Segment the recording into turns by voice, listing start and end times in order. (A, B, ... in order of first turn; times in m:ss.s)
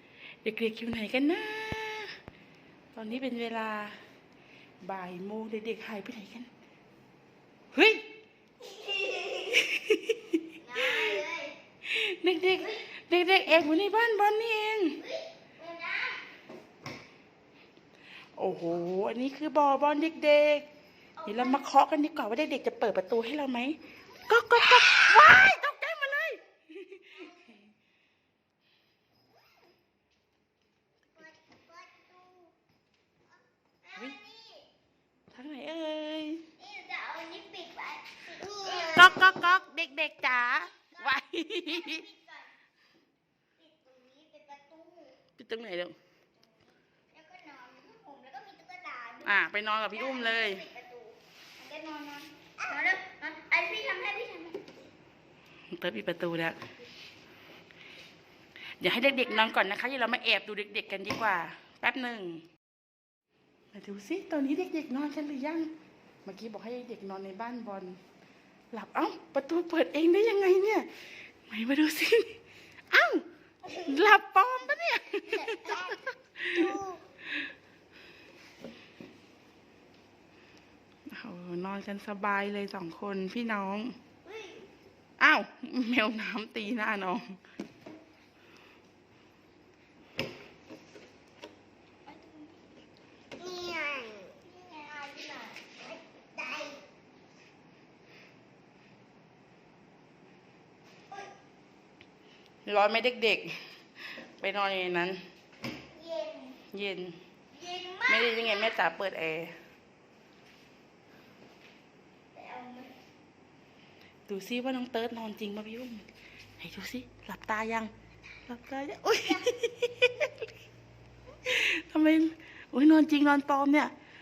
0:00.4-0:02.1 A
0:02.9-0:04.0 A
0:04.8-0:06.5 A
0:07.7-0:08.0 A
0:08.6-0:09.6 B
0:09.5-0:10.4 A
0:10.5-0:11.5 B
0:11.8-0:15.0 A
0:15.0-0:16.2 B
0:18.4-0:20.6 A
0:21.2-0:21.6 B
0:21.2-0:27.3 A
0:27.2-0:27.6 B
0:31.1-0:32.5 B
0:33.8-0:34.7 B
0:35.3-0:36.5 A
0:36.6-0:39.6 B
0:38.9-0:42.0 A
0:40.7-0:42.5 B
0:43.6-0:45.2 B
0:45.4-0:45.9 A
0:46.5-0:49.4 B
0:49.2-0:50.6 A
0:49.9-0:54.7 B
0:55.7-0:56.6 A
0:58.8-1:02.4 A
1:03.7-1:05.7 A
1:06.2-1:08.0 A
1:08.7-1:10.9 A
1:11.5-1:12.4 A
1:12.9-1:16.8 A
1:15.4-1:16.0 B
1:16.5-1:17.0 B
1:21.1-1:24.0 A
1:24.3-1:24.5 B
1:25.2-1:27.4 A
1:32.1-1:32.5 B
1:33.4-1:36.8 B
1:42.6-1:45.2 A
1:45.9-1:46.6 B
1:46.7-1:47.2 A
1:47.5-1:48.7 B
1:48.1-1:49.5 A
1:52.3-1:53.0 B
1:54.3-1:56.1 A
1:56.6-1:57.9 A
1:58.5-2:00.3 A
2:01.4-2:03.9 A